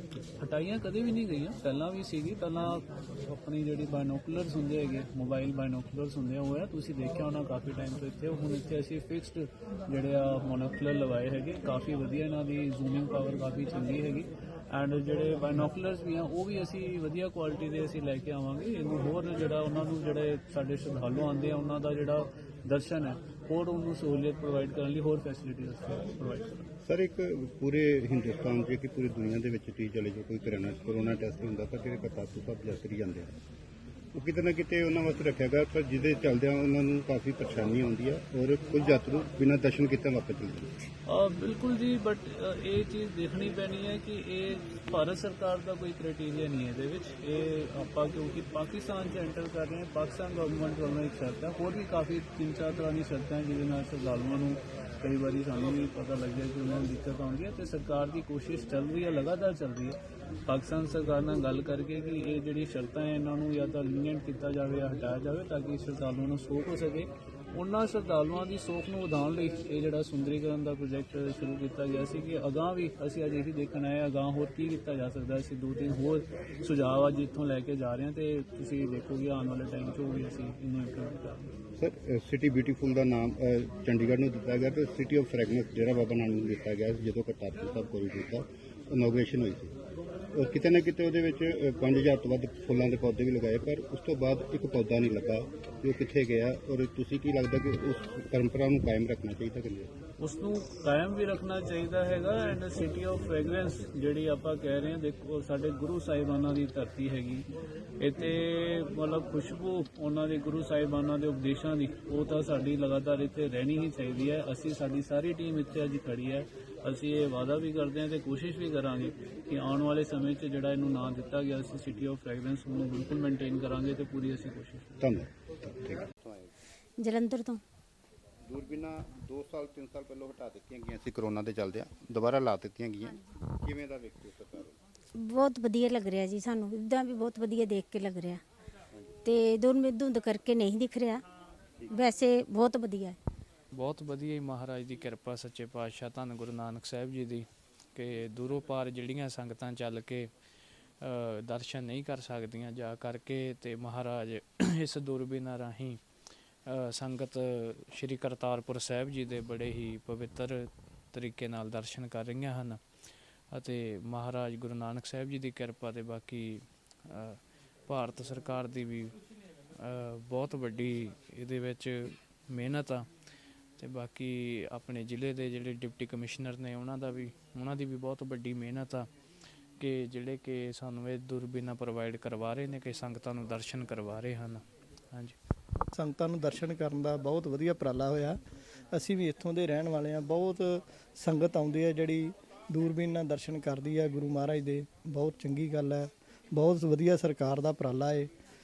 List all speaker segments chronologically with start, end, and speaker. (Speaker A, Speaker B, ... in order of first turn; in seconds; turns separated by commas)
Speaker A: 0.4-26.7, Speaker B: 26.9-33.3, Speaker B: 34.1-40.7, Speaker A: 41.0-81.5, Speaker B: 81.8-89.7, Speaker B: 90.3-99.9, Speaker A: 100.2-107.5, Speaker A: 108.0-125.0, Speaker B: 125.0-126.5, Speaker C: 127.0-127.6, Speaker B: 128.5-134.7, Speaker C: 135.3-138.4, Speaker C: 139.3-141.2, Speaker C: 142.0-143.1, Speaker D: 143.7-150.3, Speaker D: 150.9-156.0, Speaker D: 156.7-162.8, Speaker D: 163.5-169.2, Speaker D: 169.8-173.1, Speaker D: 173.8-179.1, Speaker D: 179.8-185.3, Speaker E: 185.9-188.4, Speaker E: 188.9-198.3